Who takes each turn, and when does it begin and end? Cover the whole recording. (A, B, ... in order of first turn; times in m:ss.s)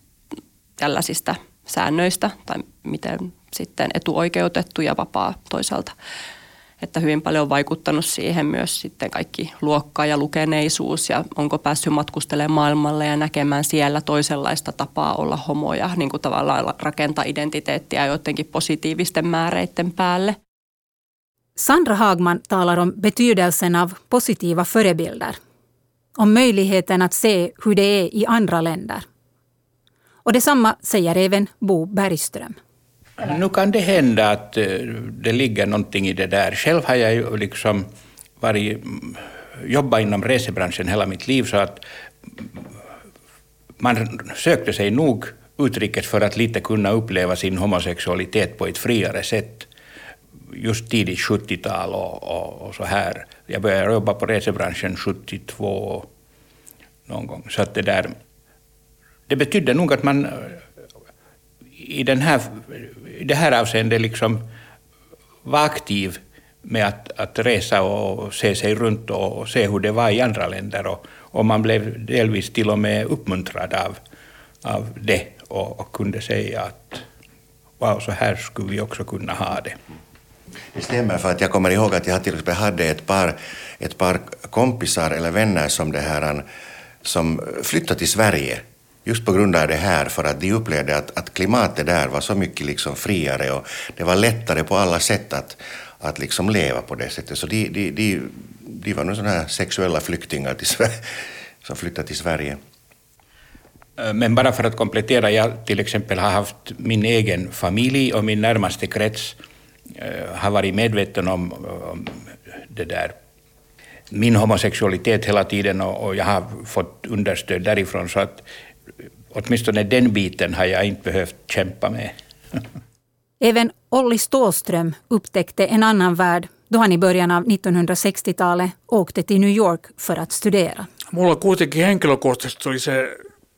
0:00.8-0:05.9 A
0:06.8-0:20.4 A
0:21.6-0:25.4 B
0:26.2-0:29.0 B
0:30.2-0:32.6 B
0:33.2-0:37.9 C
0:38.4-0:41.8 C
0:43.8-0:49.7 C
0:50.5-0:56.1 C
0:57.1-0:58.1 C
0:59.3-1:00.6 C
1:01.8-1:04.4 C
1:05.4-1:14.0 C
1:14.6-1:17.0 C
1:17.8-1:19.8 C
1:20.7-1:26.4 D
1:27.0-1:41.1 D
1:41.6-1:42.6 D
1:44.0-1:49.4 C
1:50.0-1:53.2 C
1:54.1-1:58.4 C
1:59.3-2:02.1 C
2:03.4-2:10.9 B
2:11.1-2:13.2 E